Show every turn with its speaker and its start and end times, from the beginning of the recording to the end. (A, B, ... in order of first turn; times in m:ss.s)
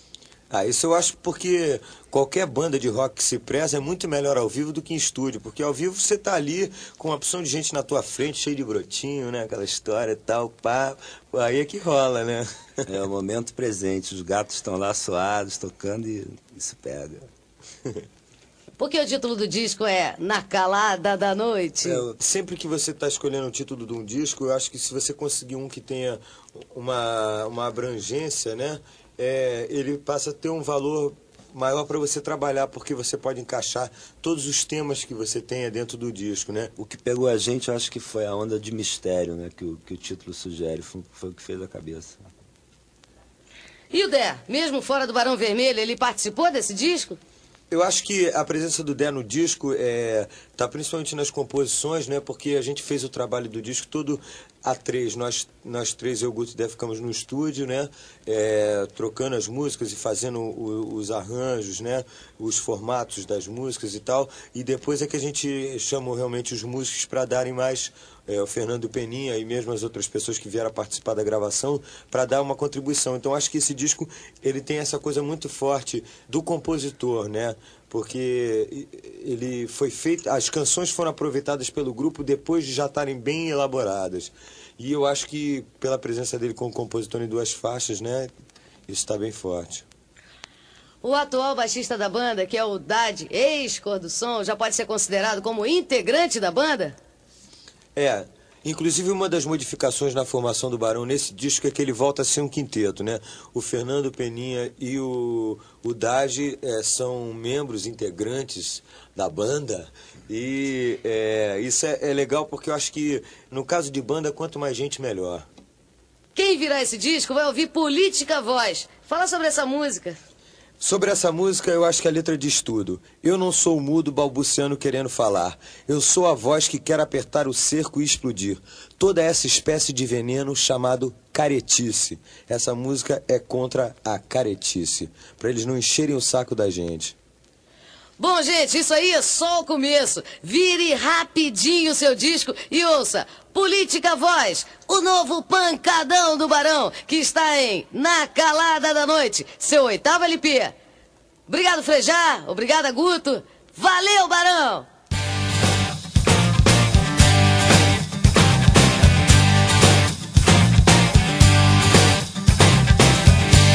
0:00.5-0:12.9 A
0:12.8-0:17.2 B
0:18.8-0:22.0 C
0:21.8-0:22.2 B
0:22.2-0:26.2 A
0:26.7-0:36.7 A
0:36.8-0:42.2 B
0:43.9-0:47.2 C
0:47.7-1:28.3 A
1:28.9-1:29.8 A
1:31.0-1:37.0 C
1:38.0-1:55.4 A
1:56.3-2:00.2 C
2:00.8-2:17.1 A
2:18.2-2:30.7 C
2:31.5-2:34.9 C